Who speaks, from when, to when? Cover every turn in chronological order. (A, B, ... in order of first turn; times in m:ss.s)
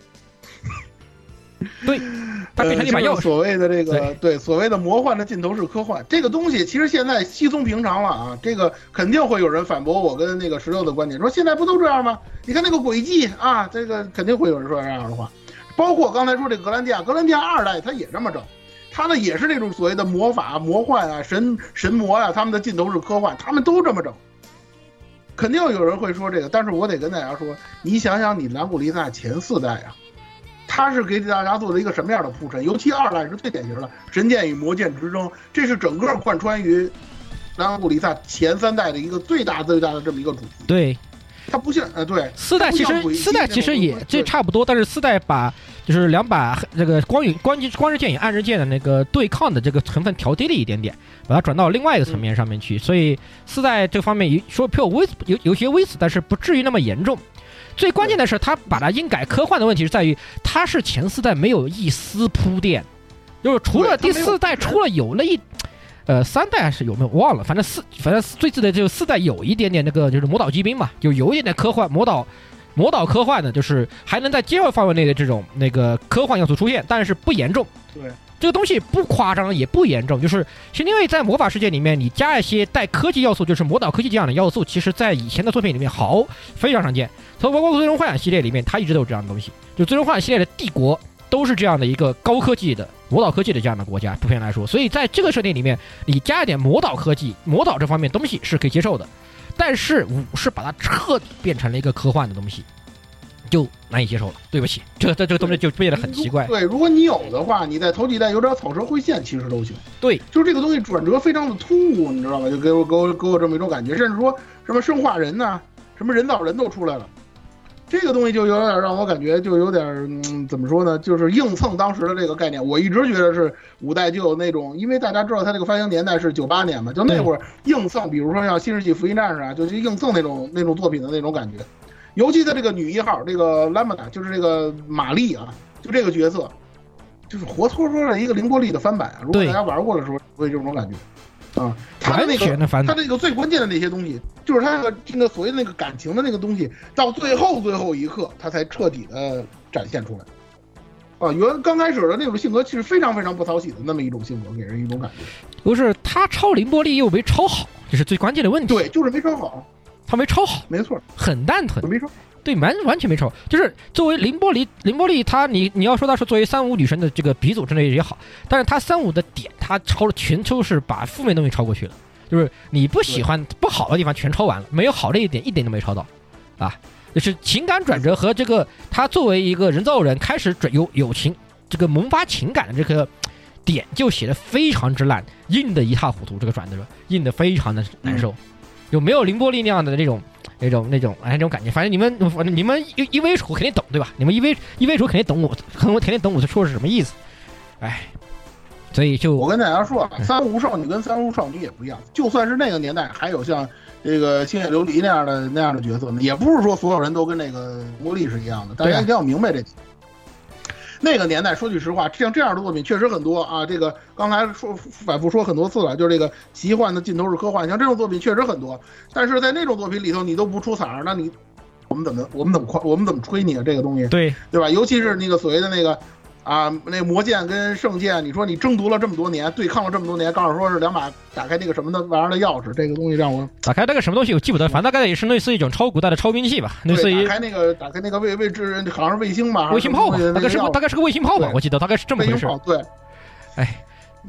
0:01.8-0:03.3 A
0:02.6-0:24.2 B
0:25.4-0:30.0 B
0:30.7-0:36.9 B
0:37.6-0:40.7 B
0:40.7-0:41.0 A
0:41.5-0:44.3 B
0:42.4-0:57.2 A
0:57.8-1:02.9 A
1:03.4-1:05.4 A
1:03.7-1:04.8 B
1:06.1-1:17.7 A
1:17.9-1:18.2 B
1:18.4-1:42.6 A
1:43.5-1:46.5 A
1:45.4-1:57.1 B
1:57.9-2:16.5 B
2:17.3-2:21.0 B
2:19.3-2:19.6 A
2:21.6-2:30.3 B
2:22.0-2:23.0 A
2:31.2-2:35.3 B
2:35.6-2:38.8 A
2:38.7-2:39.7 B
2:40.1-2:41.9 A
2:40.7-2:41.0 B
2:41.8-2:42.1 B
2:42.4-2:56.1 A
2:56.6-3:03.1 A
3:03.6-3:08.4 A
3:08.9-3:17.1 A
3:17.8-3:18.1 A
3:18.9-3:19.4 A
3:19.4-3:29.7 B
3:28.8-3:29.1 A
3:31.0-3:41.3 B
3:41.9-3:53.5 B
3:44.1-3:44.4 A
3:53.6-3:57.3 A
3:56.9-4:00.8 B
3:59.7-4:02.5 A
4:02.2-4:02.9 B
4:03.6-4:03.8 A